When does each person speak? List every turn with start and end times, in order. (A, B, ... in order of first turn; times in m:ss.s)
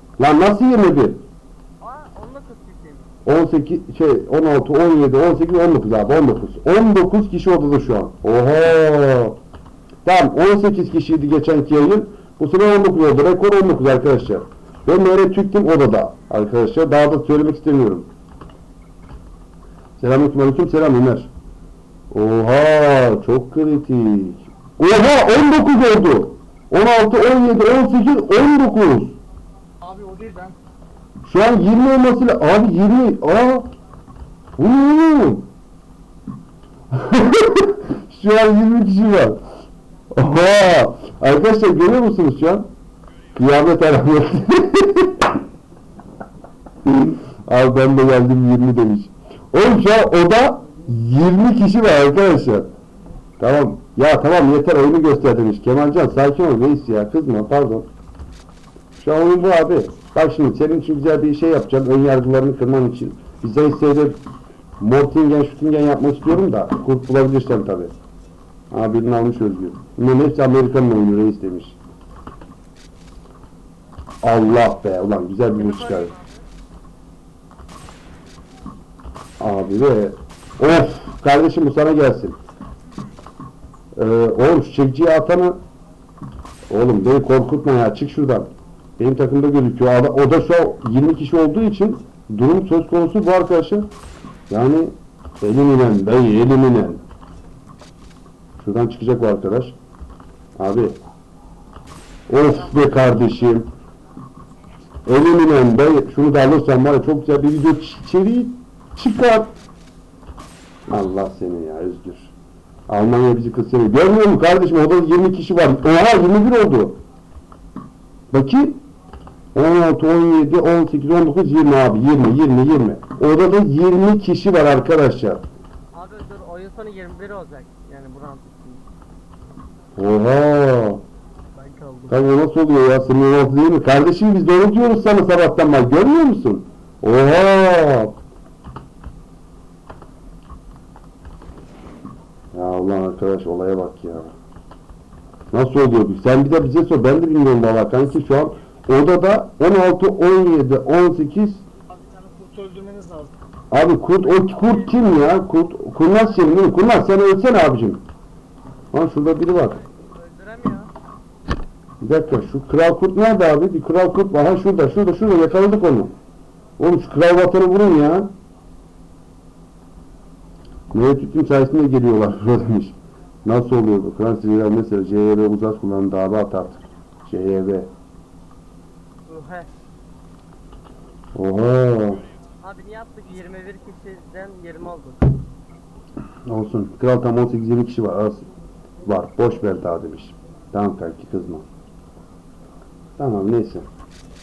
0:00.2-0:01.2 A
0:01.8-0:03.1 B
0:03.2-0:09.4 A
0:10.0-0:18.1 A
0:20.0-0:21.3 A
0:22.1-0:29.2 A
0:29.8-0:30.6 C
0:31.2-0:33.7 A
0:34.6-0:35.5 A
0:36.9-0:39.4 A
0:40.1-0:42.7 A
0:43.3-0:45.3 A
0:46.9-0:52.7 A
0:53.4-0:57.9 A
0:59.0-1:04.2 A
1:04.8-1:07.9 A
1:08.7-1:11.8 A
1:14.2-1:16.1 A
1:15.6-1:16.5 B
1:19.4-1:22.4 A
1:23.9-1:25.6 A
1:26.7-1:33.8 A
1:34.5-1:37.0 A
1:38.6-1:39.8 A
1:40.6-1:41.0 A
1:42.3-1:43.7 A
1:42.6-1:43.0 B
1:45.0-1:49.5 A
1:50.9-1:52.3 A
1:52.9-1:57.0 A
1:58.3-1:58.8 A
1:59.5-2:05.4 A
2:05.9-2:08.9 B
2:10.0-2:11.0 A
2:11.6-2:12.1 B
2:12.1-2:18.2 A
2:22.5-2:24.3 A
2:25.5-2:31.6 A
2:32.1-2:33.3 C
2:33.7-2:38.0 A
2:38.9-2:39.8 A
2:39.7-2:40.9 B
2:42.0-2:46.1 A
2:46.8-2:48.3 A
2:50.9-2:57.9 A
2:59.3-2:59.7 B
3:01.3-3:02.2 A
3:02.6-3:05.4 B
3:06.5-3:08.5 A
3:09.0-3:11.7 A
3:13.2-3:13.9 A